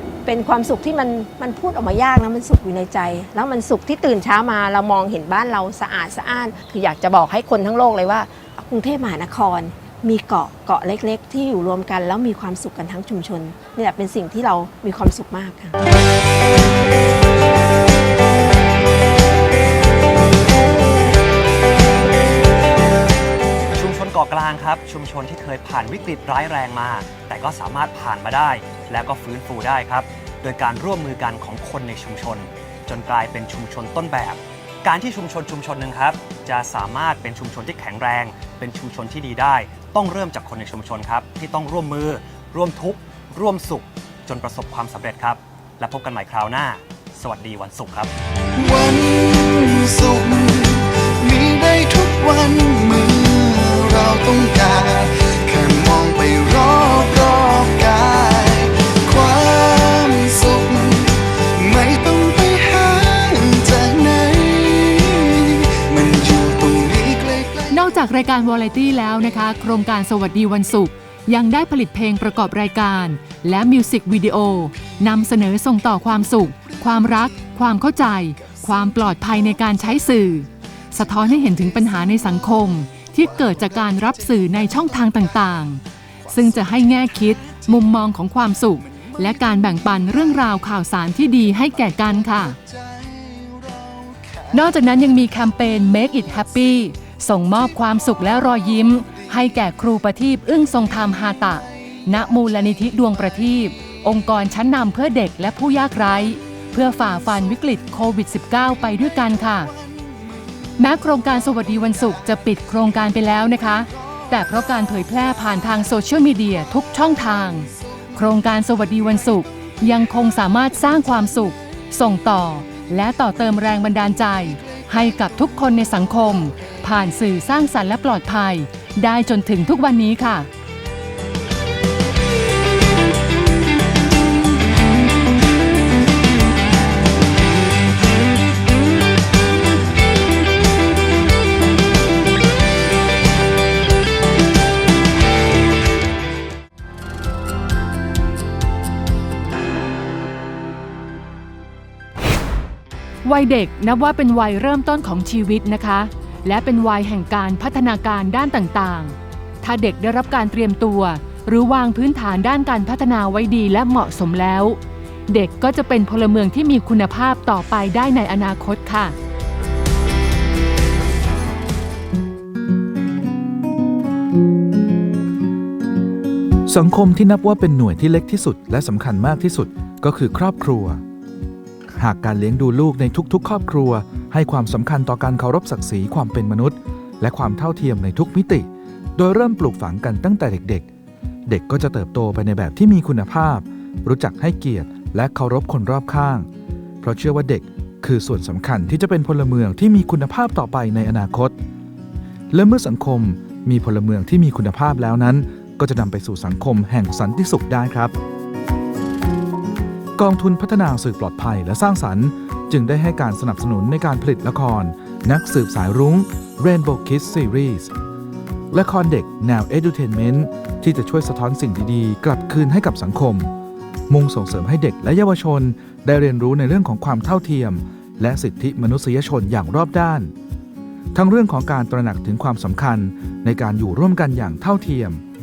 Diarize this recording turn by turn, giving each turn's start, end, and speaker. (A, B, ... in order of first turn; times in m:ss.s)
0:00.2-0:15.8 A
0:23.7-0:48.1 B
0:48.6-1:07.9 C
1:07.7-1:32.6 D
1:23.6-1:24.6 C
1:32.6-1:34.6 C
1:34.5-1:49.7 D
1:49.8-1:50.2 C
1:50.8-2:10.5 D
2:33.2-2:49.2 D
2:56.7-3:01.0 E
3:02.0-3:10.9 E
3:11.5-3:16.5 E
3:17.0-3:21.5 E
3:22.5-3:28.1 E
3:30.2-3:37.9 E
3:38.7-3:43.5 E
3:44.1-3:50.3 E
3:51.1-3:55.2 E